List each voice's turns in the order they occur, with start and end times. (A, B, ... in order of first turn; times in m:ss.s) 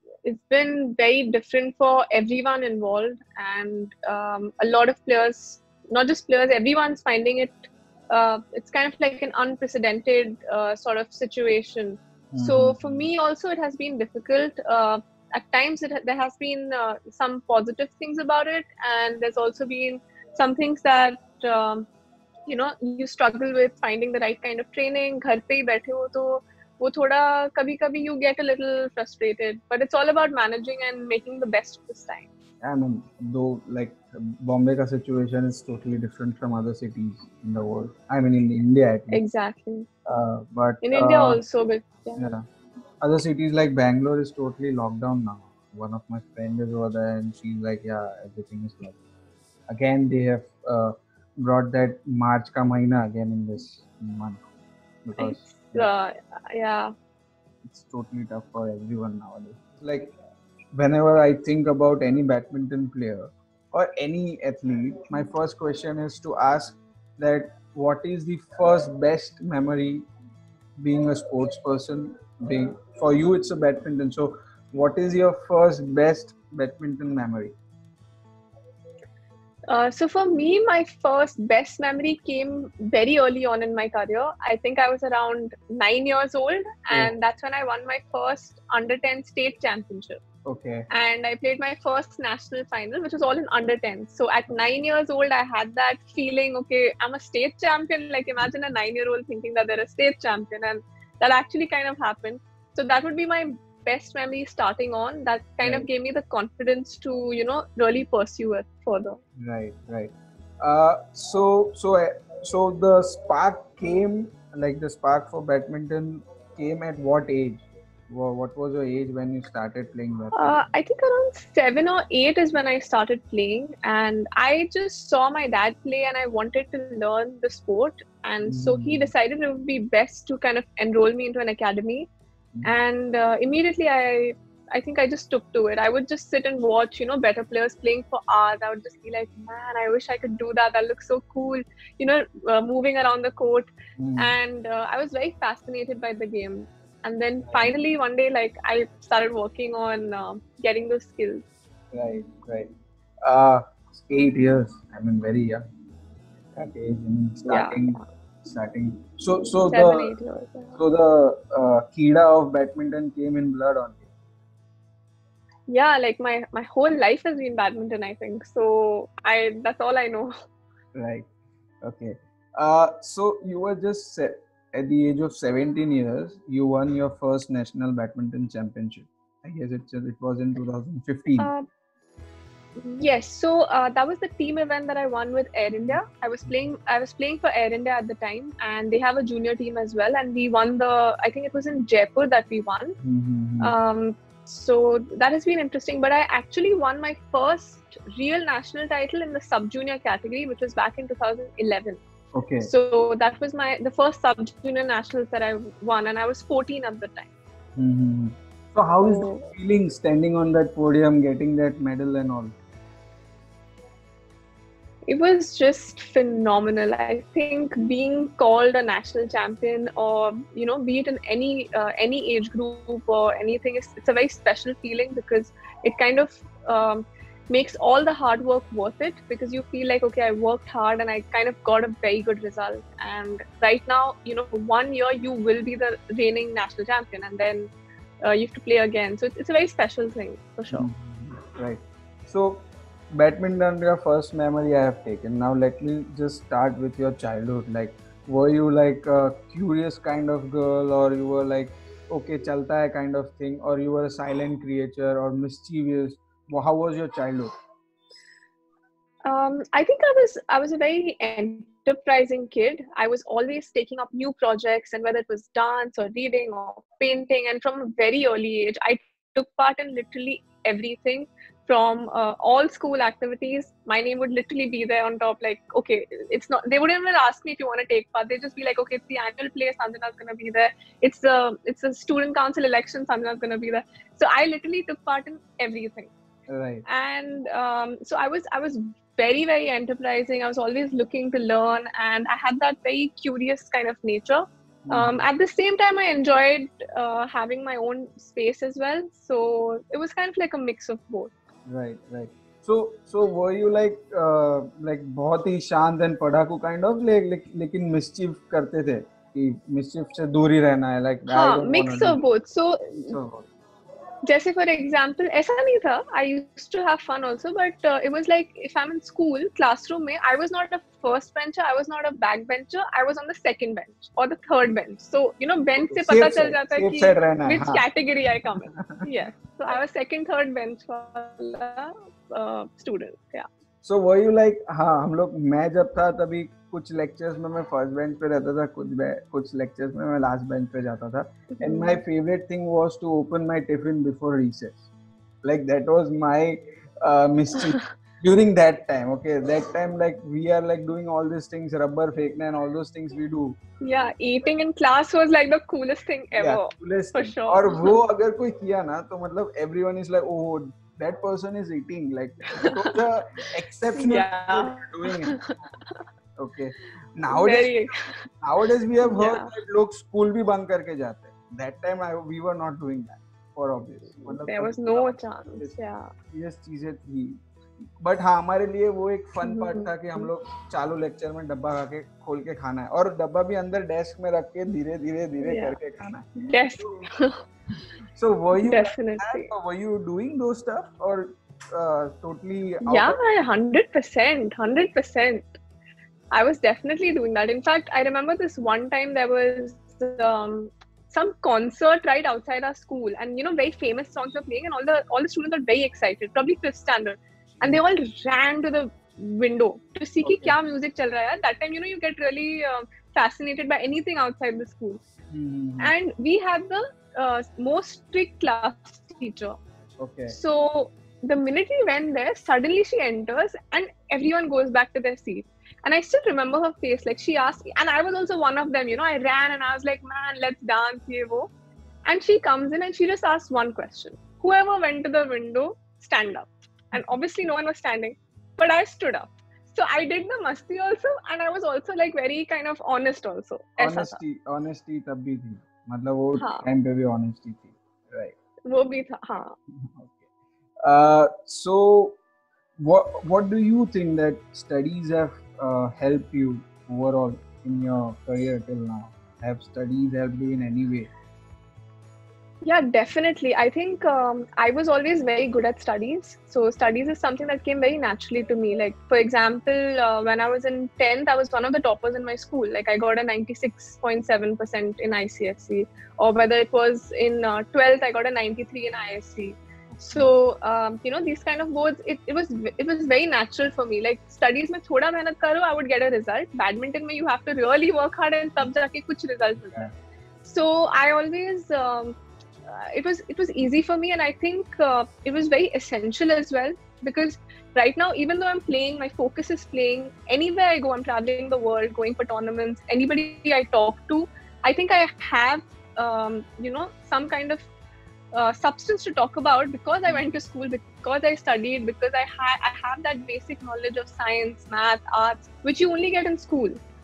0:00.2-0:21.9 A
0:12.3-0:13.0 B
0:22.5-0:32.3 A
0:32.6-0:39.2 B
0:39.1-0:39.9 A
0:40.1-0:41.4 B
0:40.8-0:42.3 A
0:42.2-0:42.5 B
0:43.0-0:49.0 B
0:49.7-0:54.4 B
0:55.0-0:55.9 B
0:55.2-0:56.9 A
0:57.7-1:00.2 B
1:00.7-1:10.1 B
1:10.8-1:17.6 B
1:19.7-1:30.2 A
1:30.5-1:30.9 B
1:30.9-1:49.2 A
1:49.4-2:00.6 B
2:00.3-2:12.1 A
2:08.4-2:09.1 B
2:12.6-2:31.4 A
2:24.0-2:24.3 B
2:27.4-2:27.7 B
2:31.9-2:32.7 B
2:33.2-2:35.6 B
2:36.5-2:40.1 B
2:37.5-2:38.0 A
2:39.7-2:40.8 A
2:40.8-2:44.1 B
2:45.7-2:50.3 A
2:50.9-2:51.3 B
2:51.8-3:01.5 B
3:01.4-3:01.7 A
3:02.8-3:13.0 A
3:13.0-3:13.7 B
3:13.6-3:22.0 A
3:22.3-3:22.7 B
3:22.6-3:27.3 A
3:27.8-3:32.5 B
3:29.1-3:29.5 A
3:35.1-3:57.7 A
3:58.2-4:00.9 A
4:00.7-4:17.5 B
4:19.2-4:46.1 A
4:46.5-4:46.8 B
4:46.9-5:01.3 A
4:54.9-4:55.2 B
5:01.7-5:12.2 B
5:11.3-5:13.2 A
5:13.1-5:13.5 B
5:14.2-5:33.5 A
5:25.8-5:27.9 B
5:28.7-5:29.0 B
5:33.8-5:44.9 B
5:41.6-5:42.0 A
5:45.4-5:53.6 B
5:53.8-5:58.0 A
5:56.4-6:05.7 B
6:02.6-6:02.9 A
6:03.9-6:06.0 A
6:06.4-6:07.8 B
6:07.3-6:08.3 A
6:08.4-6:15.8 B
6:09.0-6:09.5 A
6:14.2-6:16.1 A
6:16.3-6:17.4 B
6:18.0-6:27.0 B
6:19.4-6:20.3 A
6:25.4-6:25.8 A
6:26.4-6:27.4 A
6:28.2-6:33.2 B
6:28.6-6:29.5 A
6:32.8-6:35.6 A
6:36.3-6:55.0 A
6:50.2-6:50.6 B
6:55.3-6:55.9 B
6:55.8-6:59.6 A
7:00.0-7:00.4 B
7:00.3-7:11.5 A
7:12.1-7:24.2 A
7:23.8-7:28.4 B
7:26.4-7:26.7 A
7:28.7-7:29.6 A
7:29.8-7:30.2 B
7:30.8-7:32.2 B
7:32.8-7:41.1 B
7:42.6-8:09.9 A
7:59.9-8:00.3 B
8:10.4-8:12.2 A
8:12.7-8:27.7 A
8:28.3-8:36.8 A